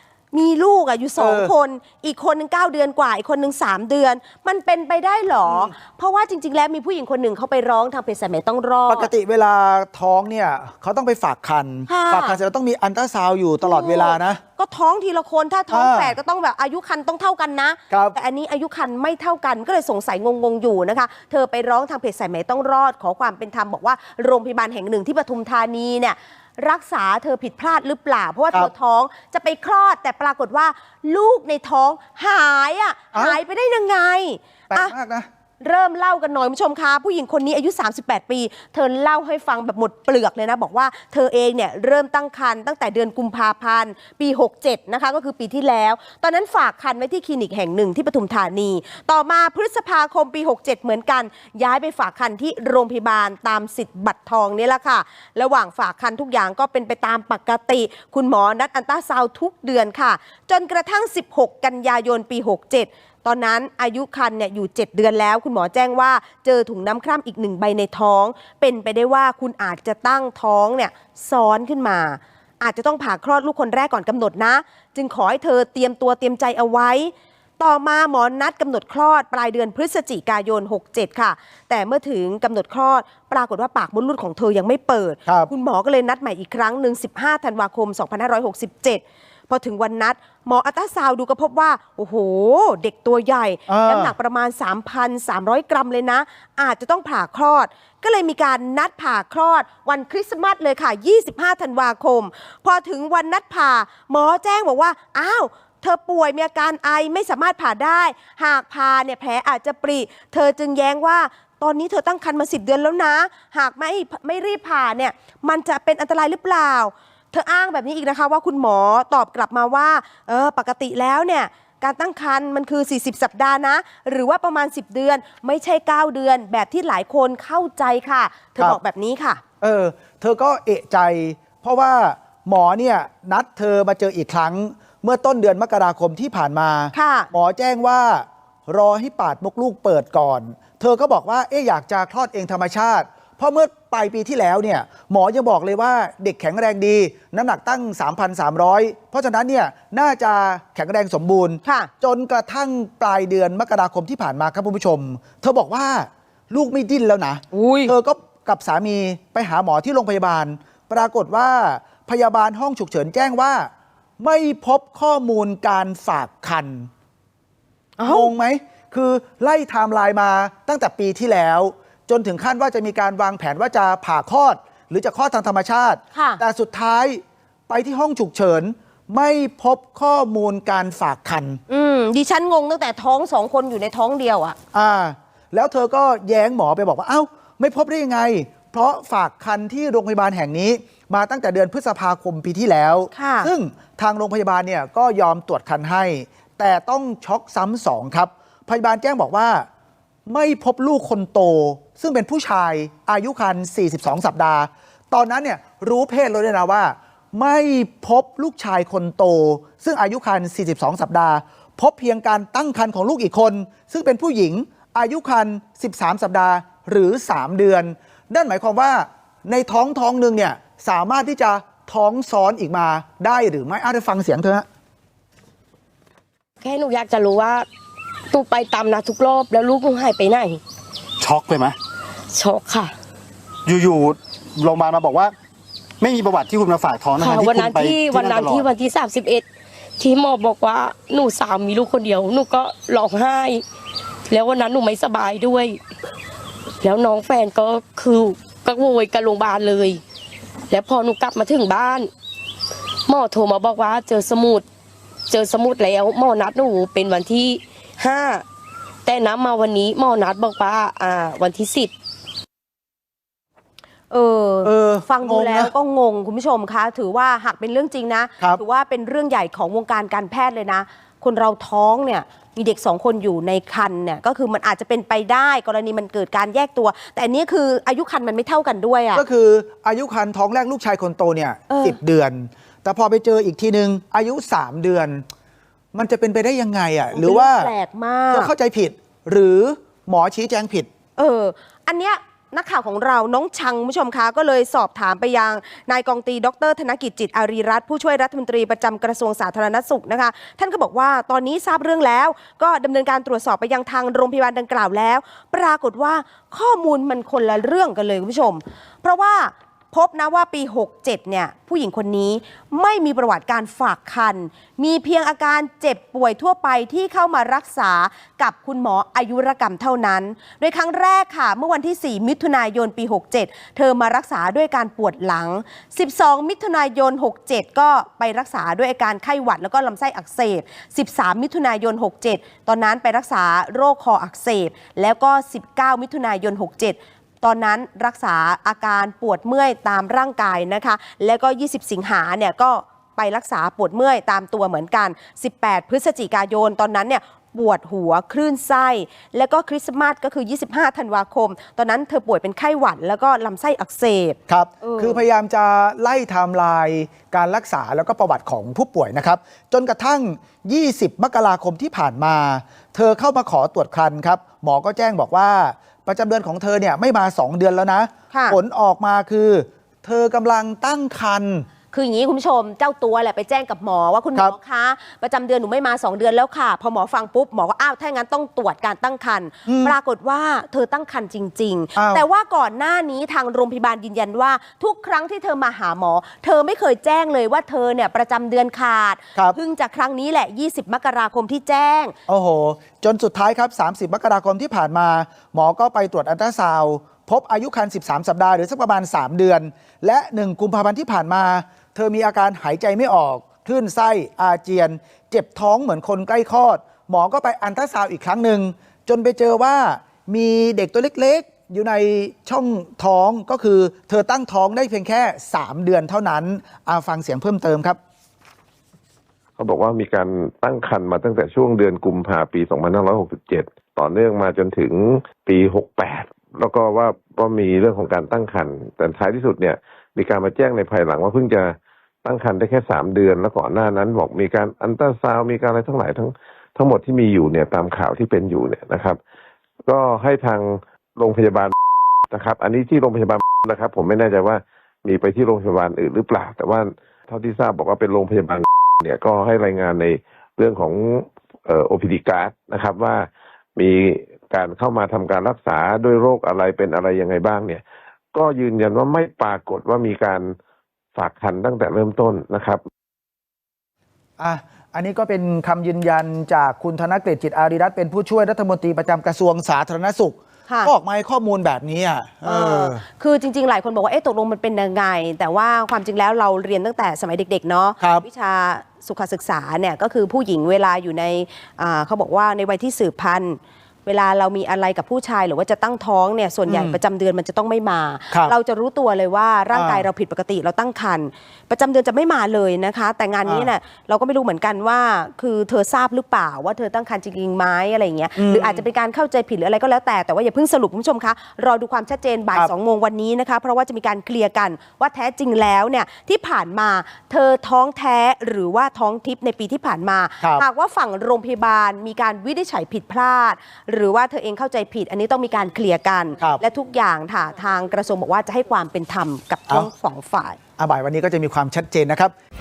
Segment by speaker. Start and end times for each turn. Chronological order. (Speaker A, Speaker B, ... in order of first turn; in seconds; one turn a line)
Speaker A: 0.3-9.1
Speaker B: 1.2-1.5
Speaker B: 5.4-5.7
Speaker B: 8.9-14.4
Speaker A: 11.9-12.4
Speaker A: 13.6-34.9
Speaker B: 15.7-16.2
Speaker B: 17.9-18.2
Speaker B: 33.1-33.4
Speaker B: 34.7-35.3
Speaker A: 35.6-129.4
Speaker B: 93.7-94.1
Speaker B: 129.6-166.9
Speaker A: 136.9-137.3
Speaker A: 151.6-151.9
Speaker A: 157.5-157.9
Speaker A: 168.0-168.3
Speaker B: 168.1-181.6
Speaker A: 176.1-176.4
Speaker A: 181.7-184.6
Speaker B: 184.7-199.7
Speaker A: 193.1-193.5
Speaker B: 200.3-224.7
Speaker C: 226.6-227.7
Speaker C: 228.3-230.6
Speaker D: 231.2-231.8
Speaker C: 232.3-232.9
Speaker D: 233.7-235.3
Speaker D: 236.0-238.7
Speaker C: 237.2-239.4
Speaker C: 240.0-243.6
Speaker C: 244.3-245.8
Speaker C: 246.8-250.0
Speaker C: 250.7-252.1
Speaker C: 253.1-254.7
Speaker C: 255.3-258.4
Speaker C: 259.0-261.9
Speaker A: 264.1-279.2
Speaker B: 264.6-265.7
Speaker B: 279.1-285.2
Speaker A: 281.7-282.0
Speaker B: 285.9-287.7
Speaker A: 287.1-288.5
Speaker B: 288.3-290.9
Speaker A: 291.2-355.2
Speaker B: 354.5-371.6
Speaker A: 368.3-368.6
Speaker A: 371.9-392.1
Speaker B: 379.6-379.9
Speaker B: 381.9-382.2
Speaker B: 392.3-418.0
Speaker E: 419.6-439.2
Speaker E: 439.9-441.7
Speaker E: 442.3-457.8
Speaker E: 458.3-460.5
Speaker E: 461.1-462.8
Speaker B: 464.4-473.0
Speaker A: 472.4-520.6
Speaker B: 478.0-478.2
Speaker B: 486.7-487.0
Speaker B: 489.7-490.1
Speaker B: 493.4-493.7
Speaker B: 498.4-498.8
Speaker B: 520.8-522.3